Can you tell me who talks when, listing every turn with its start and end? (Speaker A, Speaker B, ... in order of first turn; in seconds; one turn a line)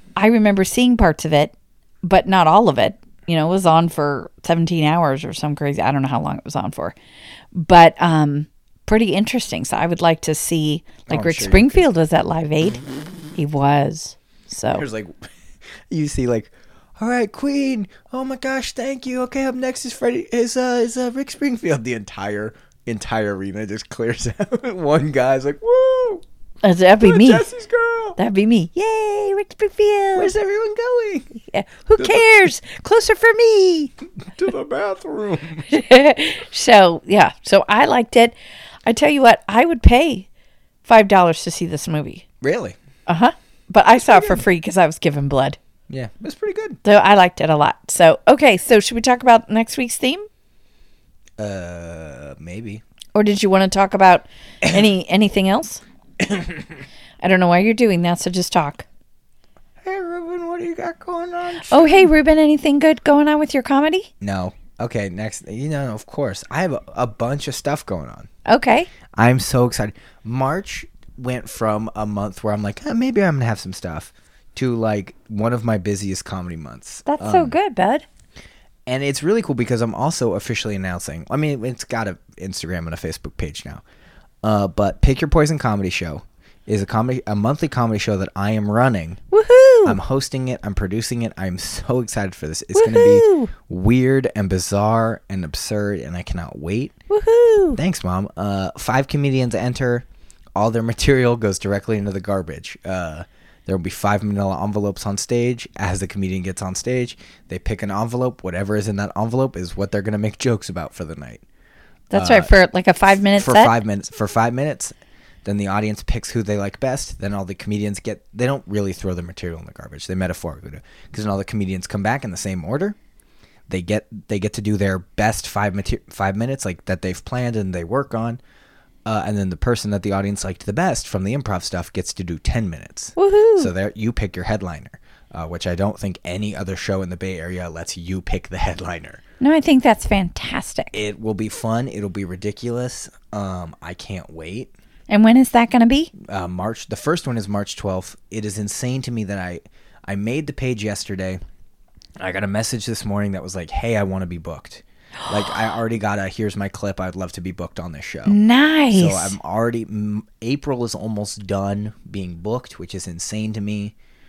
Speaker A: 0.2-7.0
Speaker A: 7.5-12.8
Speaker B: 11.1-11.9
Speaker A: 13.4-14.8
Speaker B: 14.7-15.3
Speaker B: 15.9-26.2
Speaker A: 26.6-27.5
Speaker B: 27.0-28.2
Speaker A: 28.2-30.3
Speaker B: 30.2-31.3
Speaker A: 31.5-33.9
Speaker B: 32.0-32.3
Speaker B: 34.2-35.8
Speaker A: 35.7-38.4
Speaker A: 38.9-40.3
Speaker A: 40.9-42.2
Speaker B: 42.4-42.8
Speaker A: 43.1-45.6
Speaker B: 44.0-44.4
Speaker B: 45.9-46.8
Speaker A: 46.8-50.3
Speaker B: 51.4-52.8
Speaker A: 53.1-55.8
Speaker B: 56.2-56.8
Speaker A: 57.2-58.9
Speaker B: 59.8-62.1
Speaker A: 61.6-64.1
Speaker B: 64.2-68.3
Speaker A: 68.5-68.9
Speaker B: 69.2-77.6
Speaker A: 77.1-78.0
Speaker B: 78.9-83.8
Speaker B: 84.4-89.2
Speaker A: 89.3-90.0
Speaker B: 89.8-96.9
Speaker A: 92.7-93.5
Speaker A: 97.1-97.8
Speaker B: 97.8-111.4
Speaker A: 112.1-113.7
Speaker B: 112.1-112.5
Speaker B: 113.3-114.9
Speaker B: 115.5-123.0
Speaker B: 123.7-128.4
Speaker B: 129.1-139.2
Speaker A: 133.2-133.7
Speaker A: 139.4-141.0
Speaker B: 140.9-144.7
Speaker A: 145.1-146.1
Speaker B: 146.2-151.4
Speaker B: 152.2-158.4
Speaker A: 158.3-159.4
Speaker B: 158.9-163.9